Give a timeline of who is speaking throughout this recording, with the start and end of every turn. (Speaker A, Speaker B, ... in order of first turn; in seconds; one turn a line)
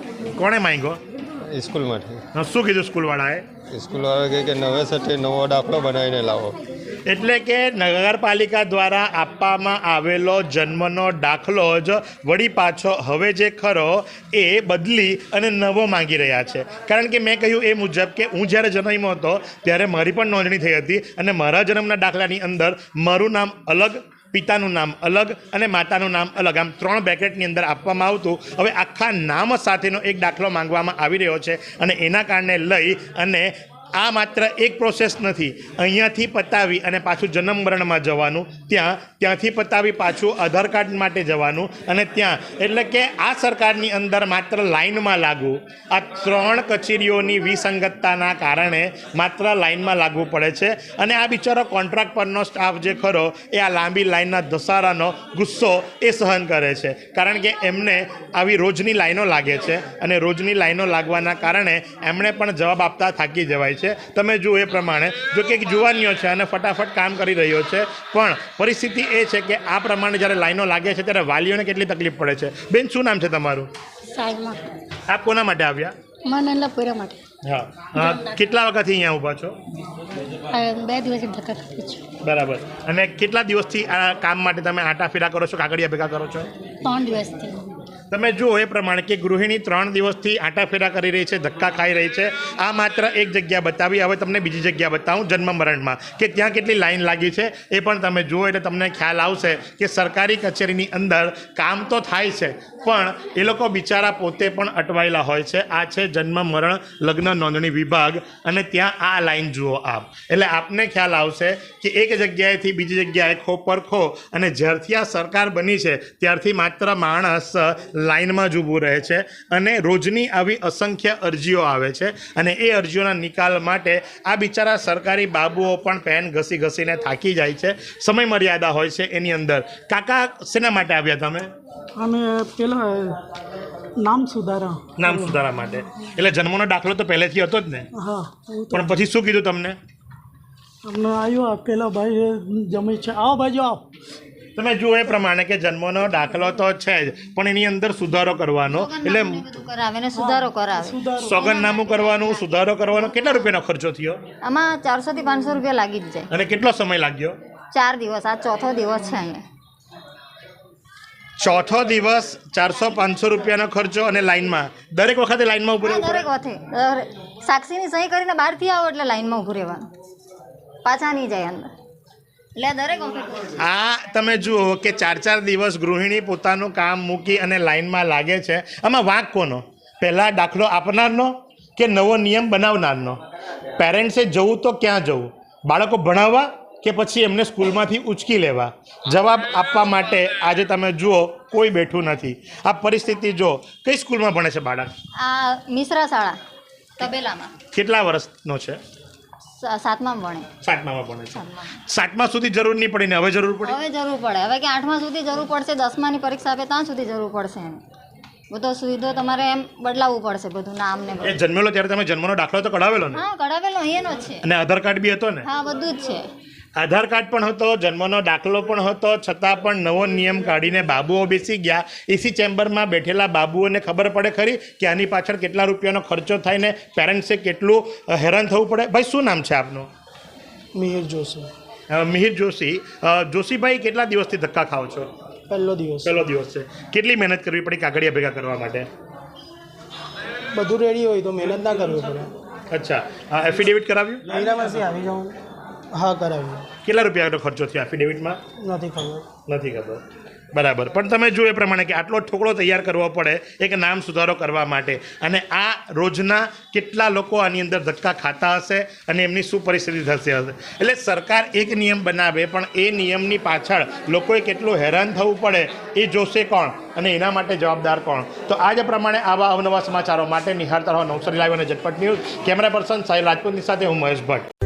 Speaker A: 0.3-1.0
Speaker B: 1.5-2.2
Speaker A: 2.3-3.4
Speaker B: 3.7-6.5
Speaker A: 7.1-73.7
Speaker C: 74.1-74.7
Speaker A: 75.1-75.9
Speaker C: 76.2-77.2
Speaker A: 77.4-79.6
Speaker C: 78.0-78.4
Speaker C: 80.5-82.0
Speaker A: 82.2-86.5
Speaker C: 86.8-87.7
Speaker A: 88.1-131.5
Speaker D: 132.0-133.2
Speaker D: 134.0-135.4
Speaker A: 135.0-137.9
Speaker D: 137.9-138.9
Speaker A: 138.7-139.8
Speaker D: 140.8-143.8
Speaker A: 144.6-149.4
Speaker E: 148.7-152.5
Speaker D: 150.1-151.4
Speaker A: 151.3-154.2
Speaker E: 154.4-156.3
Speaker A: 156.3-157.3
Speaker E: 157.7-159.4
Speaker A: 161.4-166.2
Speaker E: 165.8-169.8
Speaker E: 170.8-171.7
Speaker E: 172.6-173.4
Speaker A: 173.6-183.2
Speaker A: 183.8-194.9
Speaker E: 195.2-196.3
Speaker E: 197.0-197.5
Speaker A: 197.7-198.8
Speaker E: 199.6-200.5
Speaker A: 200.6-203.8
Speaker E: 201.3-201.7
Speaker E: 203.6-207.8
Speaker E: 208.5-211.4
Speaker A: 211.2-213.2
Speaker E: 213.1-214.4
Speaker A: 214.4-215.4
Speaker E: 215.4-216.2
Speaker A: 216.8-229.9
Speaker D: 230.7-231.5
Speaker A: 231.9-235.1
Speaker D: 235.5-236.2
Speaker A: 236.0-238.9
Speaker D: 240.5-242.3
Speaker A: 242.7-244.2
Speaker D: 244.3-245.4
Speaker D: 245.9-246.7
Speaker A: 246.8-248.4
Speaker D: 248.6-249.3
Speaker A: 249.4-250.0
Speaker A: 250.5-274.5